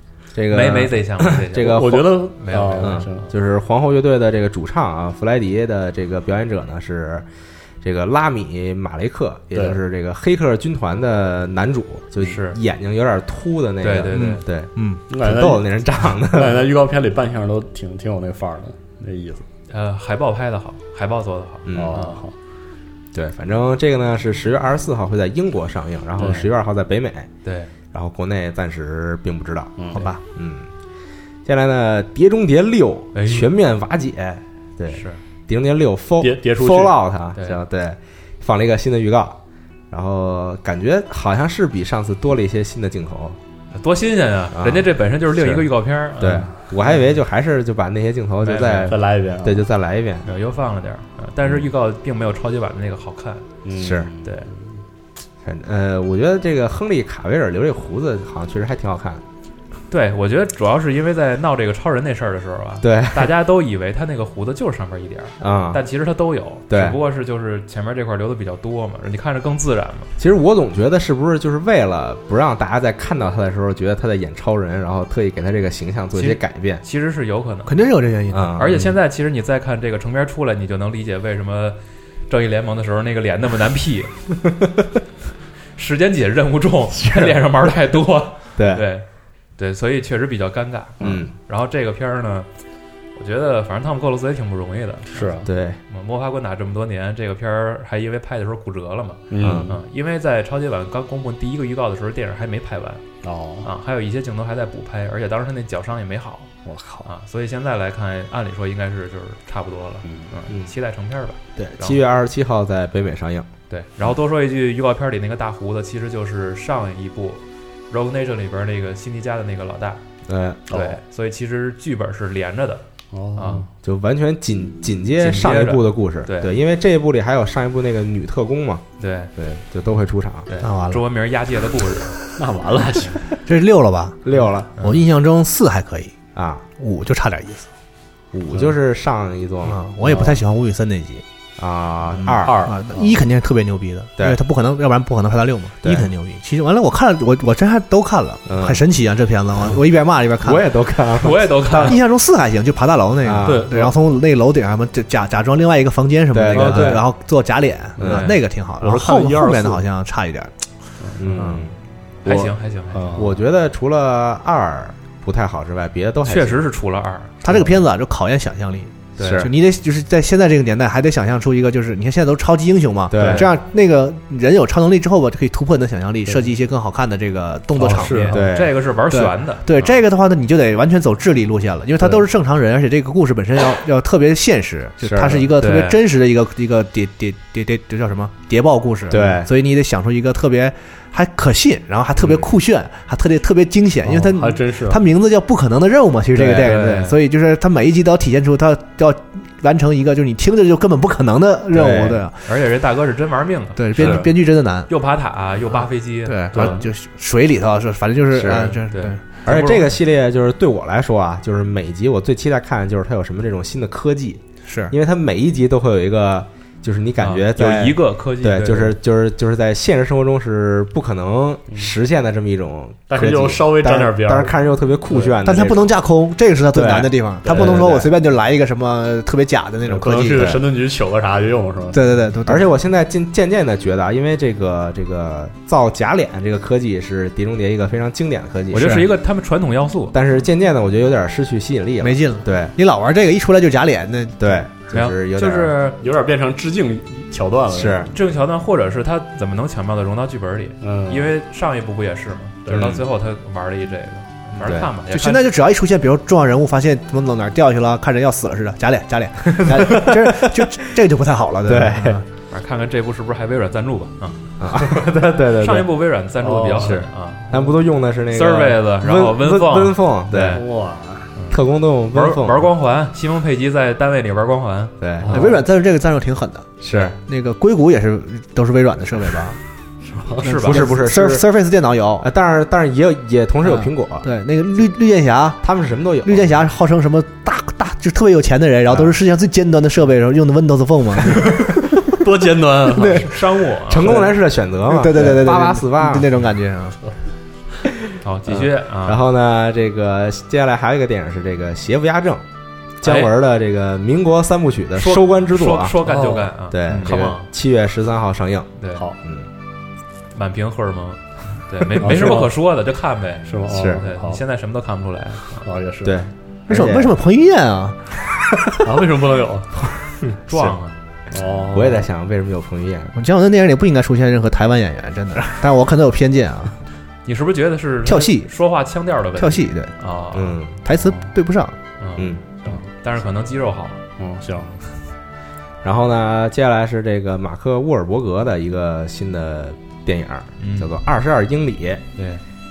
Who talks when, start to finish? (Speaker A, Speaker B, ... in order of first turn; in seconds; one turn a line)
Speaker A: 0.3-7.2
Speaker B: 0.5-3.0
Speaker C: 1.5-3.3
Speaker A: 7.8-16.7
Speaker C: 9.5-9.8
Speaker B: 12.2-12.6
Speaker B: 13.8-14.4
Speaker D: 14.1-15.0
Speaker C: 15.1-19.5
Speaker B: 19.7-22.2
Speaker A: 21.6-22.0
Speaker C: 21.7-22.3
Speaker A: 23.1-27.3
Speaker C: 26.2-26.5
Speaker B: 27.4-27.7
Speaker A: 27.9-30.7
Speaker C: 29.8-30.0
Speaker D: 29.9-30.2
Speaker A: 31.4-39.4
Speaker B: 33.1-33.5
Speaker B: 34.9-35.2
Speaker C: 36.2-36.9
Speaker A: 39.9-43.4
Speaker B: 43.7-47.0
Speaker A: 44.5-50.3
Speaker B: 48.4-49.0
Speaker C: 48.9-49.6
Speaker B: 50.2-53.5
Speaker C: 53.6-54.6
Speaker A: 53.8-54.1
Speaker B: 54.2-54.5
Speaker A: 55.4-59.2
Speaker B: 59.9-70.1
Speaker A: 62.8-63.3
Speaker A: 65.4-65.8
Speaker A: 66.7-67.0
Speaker A: 70.2-76.8
Speaker B: 76.1-77.8
Speaker D: 77.7-78.6
Speaker A: 78.3-78.9
Speaker B: 78.5-81.8
Speaker B: 82.3-84.1
Speaker B: 85.7-89.0
Speaker A: 86.9-87.4
Speaker A: 88.6-88.8
Speaker B: 89.6-92.5
Speaker C: 91.0-91.2
Speaker A: 91.0-91.3
Speaker B: 93.1-103.0
Speaker C: 95.1-95.5
Speaker A: 95.5-95.8
Speaker C: 99.3-99.8
Speaker A: 99.4-99.7
Speaker C: 103.2-103.7
Speaker B: 103.6-106.5
Speaker C: 106.6-107.1
Speaker B: 107.0-112.0
Speaker C: 110.0-110.3
Speaker A: 111.5-113.5
Speaker B: 113.7-120.0
Speaker A: 120.3-120.6
Speaker B: 120.7-122.8
Speaker C: 120.7-121.0
Speaker C: 123.1-123.7
Speaker B: 123.3-123.7
Speaker A: 123.8-128.8
Speaker B: 125.2-126.5
Speaker B: 129.0-129.3
Speaker A: 129.3-130.5
Speaker B: 130.5-132.2
Speaker D: 130.6-131.1
Speaker C: 132.3-133.3
Speaker D: 133.4-134.2
Speaker A: 134.2-134.7
Speaker D: 134.8-136.1
Speaker A: 136.3-136.6
Speaker D: 136.8-137.7
Speaker A: 138.3-139.8
Speaker D: 139.6-141.2
Speaker C: 140.0-140.4
Speaker A: 141.6-142.6
Speaker D: 142.2-150.7
Speaker C: 142.4-143.2
Speaker A: 145.8-146.1
Speaker A: 148.5-148.8
Speaker A: 150.4-152.0
Speaker B: 151.2-152.0
Speaker D: 151.7-160.5
Speaker A: 153.2-153.7
Speaker C: 153.4-153.9
Speaker A: 156.3-157.0
Speaker C: 156.5-157.0
Speaker A: 158.0-158.3
Speaker B: 158.1-158.3
Speaker C: 158.8-159.8
Speaker C: 161.0-161.5
Speaker A: 161.2-161.7
Speaker D: 161.3-161.6
Speaker B: 162.2-163.1
Speaker C: 162.9-163.4
Speaker A: 163.2-166.6
Speaker B: 166.2-167.3
Speaker D: 167.4-178.4
Speaker B: 169.2-169.5
Speaker A: 169.2-169.5
Speaker A: 173.1-173.5
Speaker C: 173.2-173.4
Speaker C: 177.7-178.4
Speaker B: 177.9-179.9
Speaker A: 178.2-178.8
Speaker D: 179.1-202.5
Speaker A: 185.0-185.5
Speaker B: 185.6-186.0
Speaker A: 189.1-189.5
Speaker A: 192.2-192.5
Speaker C: 194.0-195.0
Speaker A: 196.3-196.8
Speaker B: 196.5-197.2
Speaker A: 201.7-202.2
Speaker B: 202.4-204.3
Speaker D: 203.8-204.9
Speaker A: 204.0-204.2
Speaker B: 204.9-206.7
Speaker D: 206.2-209.2
Speaker C: 206.5-206.9
Speaker A: 208.3-208.8
Speaker B: 208.9-210.0
Speaker A: 209.4-225.9
Speaker D: 214.6-214.9
Speaker B: 217.2-218.9
Speaker C: 223.1-225.5
Speaker D: 225.4-230.6
Speaker A: 226.7-227.9
Speaker C: 227.4-228.1
Speaker C: 229.8-232.0
Speaker A: 230.3-230.6
Speaker D: 231.9-232.7
Speaker A: 232.4-239.1
Speaker B: 238.7-240.2
Speaker D: 238.8-239.0
Speaker A: 240.1-242.7
Speaker D: 242.0-244.6
Speaker A: 244.4-245.7
Speaker B: 244.9-246.0
Speaker C: 246.0-248.1
Speaker A: 247.7-248.1
Speaker B: 248.1-255.5
Speaker C: 250.8-251.3
Speaker C: 252.7-252.9
Speaker A: 252.7-253.0
Speaker A: 254.6-254.9
Speaker D: 255.1-262.2
Speaker A: 259.4-260.7
Speaker A: 261.6-262.2
Speaker B: 262.5-265.0
Speaker A: 264.6-265.9
Speaker B: 265.5-267.5
Speaker C: 266.4-267.8
Speaker A: 266.8-270.6
Speaker B: 268.3-270.6
Speaker C: 270.5-271.3
Speaker B: 271.4-274.9
Speaker A: 271.5-272.6
Speaker A: 275.0-275.4
Speaker C: 275.2-275.6
Speaker D: 275.3-279.6
Speaker A: 276.8-277.2
Speaker C: 280.1-280.5
Speaker B: 280.4-280.8
Speaker D: 280.4-282.3
Speaker A: 280.6-281.4
Speaker A: 282.2-284.3
Speaker D: 284.2-285.6
Speaker A: 285.6-286.6
Speaker D: 286.2-292.2
Speaker C: 292.0-293.5
Speaker D: 292.8-293.4
Speaker B: 293.0-294.3
Speaker A: 293.9-296.3
Speaker D: 294.8-297.0
Speaker C: 295.1-295.4
Speaker B: 298.2-299.2
Speaker A: 298.5-302.4
Speaker A: 303.0-306.0
Speaker B: 303.0-303.3
Speaker B: 305.0-307.5
Speaker C: 306.0-306.5
Speaker A: 306.7-308.7
Speaker D: 306.9-307.1
Speaker B: 308.8-309.1
Speaker A: 309.2-309.5
Speaker B: 310.3-315.6
Speaker C: 312.0-312.5
Speaker A: 312.0-312.4
Speaker C: 313.5-314.4
Speaker A: 313.7-314.0
Speaker C: 315.6-316.2
Speaker A: 316.0-317.1
Speaker D: 316.7-318.0
Speaker C: 318.8-319.8
Speaker A: 320.2-320.7
Speaker B: 320.5-321.0
Speaker C: 321.3-322.1
Speaker A: 321.7-323.1
Speaker D: 323.1-326.8
Speaker B: 327.2-330.6
Speaker D: 328.0-328.5
Speaker D: 329.4-329.9
Speaker A: 330.3-330.8
Speaker D: 330.8-331.8
Speaker C: 331.0-331.3
Speaker B: 332.0-334.0
Speaker A: 332.2-332.4
Speaker C: 334.2-334.9
Speaker A: 335.8-342.0
Speaker B: 340.6-341.0
Speaker B: 342.1-342.4